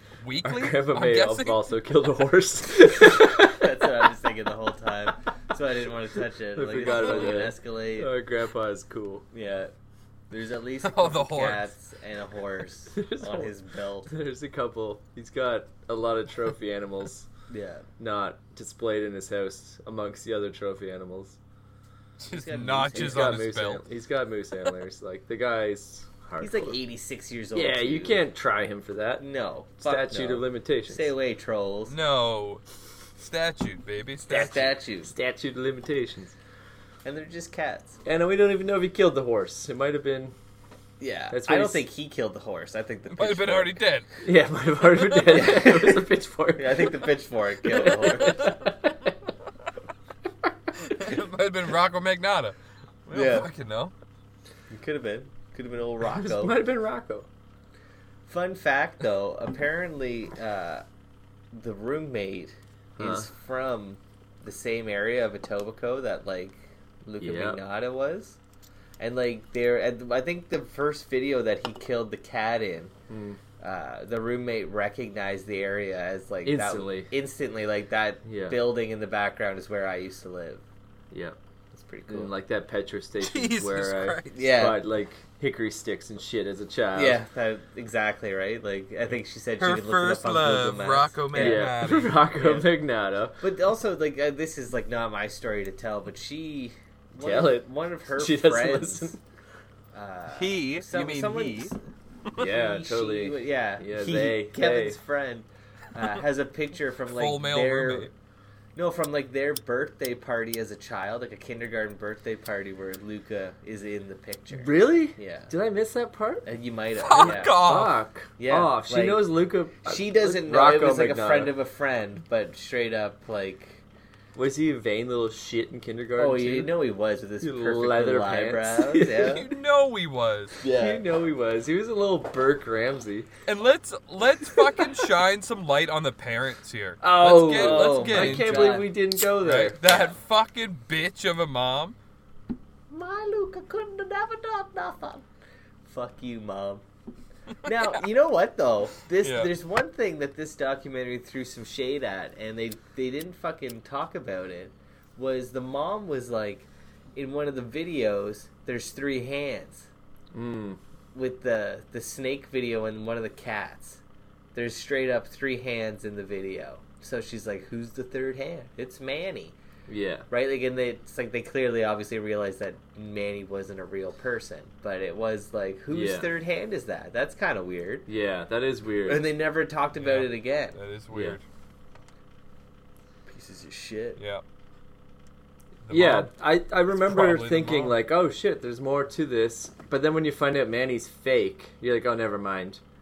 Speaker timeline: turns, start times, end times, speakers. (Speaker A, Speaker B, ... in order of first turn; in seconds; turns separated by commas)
Speaker A: 0.2-1.6, Speaker B: 0.4-3.6, Speaker C: 3.1-8.1, Speaker B: 6.5-9.3, Speaker C: 9.3-9.7, Speaker C: 10.3-14.1, Speaker A: 10.8-11.7, Speaker B: 12.9-13.5, Speaker B: 14.1-17.3, Speaker C: 17.5-17.9, Speaker B: 18.0-21.4, Speaker A: 22.2-23.8, Speaker C: 22.3-23.4, Speaker B: 22.9-26.8, Speaker C: 26.4-28.2, Speaker B: 27.6-29.3, Speaker C: 29.2-31.9, Speaker B: 29.8-31.1, Speaker A: 31.9-32.6, Speaker A: 33.2-34.7, Speaker C: 34.3-35.1, Speaker B: 35.0-36.4, Speaker C: 37.0-38.0, Speaker B: 38.0-40.4, Speaker C: 41.0-43.8, Speaker B: 41.3-41.9, Speaker A: 43.1-44.1, Speaker B: 44.2-47.0, Speaker C: 45.1-48.5, Speaker B: 47.7-49.1, Speaker A: 50.9-52.6, Speaker A: 53.1-53.9, Speaker C: 53.1-53.5, Speaker C: 54.7-56.5, Speaker B: 56.0-57.3, Speaker C: 58.3-60.8, Speaker C: 61.5-68.4, Speaker B: 63.0-63.3, Speaker B: 67.2-67.6, Speaker C: 69.0-72.9, Speaker B: 73.1-73.4, Speaker C: 73.6-80.6, Speaker B: 76.5-77.1, Speaker B: 78.2-78.6, Speaker B: 81.1-81.4, Speaker C: 81.7-82.3, Speaker B: 82.1-87.2, Speaker A: 83.2-84.6, Speaker C: 84.3-84.8, Speaker C: 86.9-91.7, Speaker A: 89.6-92.2, Speaker B: 91.3-93.4, Speaker C: 92.4-92.7, Speaker C: 93.4-99.2, Speaker B: 97.2-99.2, Speaker C: 99.9-101.8, Speaker A: 100.3-101.7, Speaker B: 102.4-105.0, Speaker C: 102.4-108.1, Speaker A: 107.1-108.1, Speaker C: 108.8-115.5, Speaker B: 114.5-116.5, Speaker C: 116.5-117.6, Speaker A: 117.0-118.0, Speaker B: 117.2-121.6, Speaker C: 118.4-119.3, Speaker C: 119.8-123.8, Speaker B: 124.3-126.7, Speaker C: 126.2-129.5, Speaker B: 127.4-129.4, Speaker A: 129.1-130.6, Speaker C: 130.6-131.0, Speaker B: 130.7-133.3, Speaker A: 133.5-142.0, Speaker B: 137.0-140.1, Speaker C: 137.4-138.9, Speaker C: 139.5-140.1, Speaker C: 142.9-145.2, Speaker C: 145.8-146.8, Speaker C: 147.6-159.9, Speaker A: 149.2-149.5, Speaker B: 160.3-160.8, Speaker C: 161.1-164.0, Speaker C: 164.6-169.6, Speaker B: 169.9-170.3, Speaker C: 170.3-178.1, Speaker B: 175.9-176.3, Speaker B: 178.1-179.2, Speaker C: 179.1-180.8, Speaker A: 179.9-181.4, Speaker B: 181.1-181.4, Speaker C: 183.3-184.2, Speaker A: 184.2-184.4, Speaker A: 185.9-186.3, Speaker B: 185.9-192.8, Speaker A: 186.9-188.0